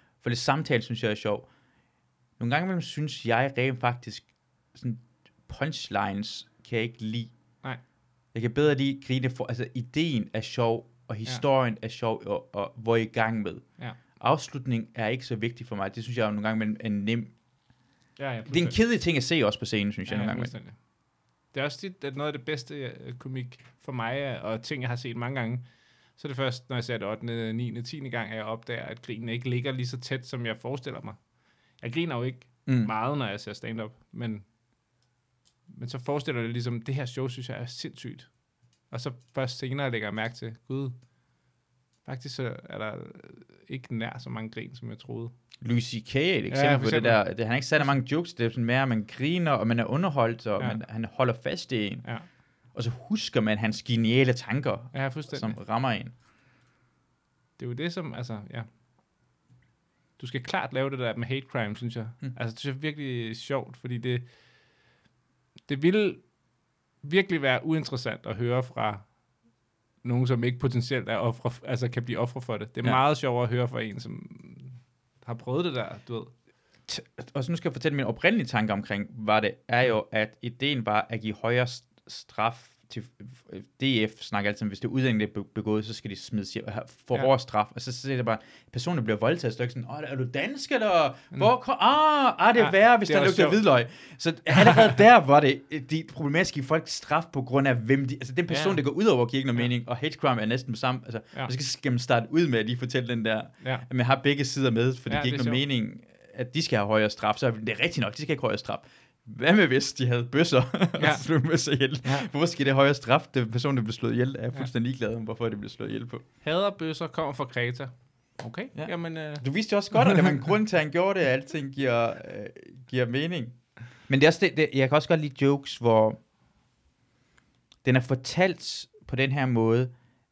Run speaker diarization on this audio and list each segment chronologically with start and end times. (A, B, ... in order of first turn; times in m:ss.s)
0:00.2-0:01.5 A
0:02.4-0:07.3 A
0:08.3-0:13.6 A
0:14.2-0:17.3 A
0:18.2-0:18.8 B
0:18.5-0:20.5 A
0:20.1-0:20.8 B
0:21.5-0:25.6 B
0:26.2-0:31.2 B
0:31.8-0:34.4 B
0:32.7-0:32.9 A
0:35.7-0:38.3 B
0:38.9-0:40.9 B
0:42.0-0:45.3 B
0:45.6-0:52.1 A
0:46.5-0:47.2 B
0:52.7-0:56.1 A
0:54.9-0:55.6 B
0:57.6-0:58.7 B
1:00.2-1:04.2 B
1:05.7-1:06.2 B
1:07.0-1:09.0 B
1:10.0-1:16.3 B
1:16.9-1:56.2 A
1:32.6-1:33.6 B
1:38.5-1:38.8 B
1:45.1-1:45.6 B
1:51.0-1:51.2 B
1:56.4-2:00.5 B
1:58.8-2:03.6 A
2:04.1-2:06.2 A
2:07.8-2:09.9 A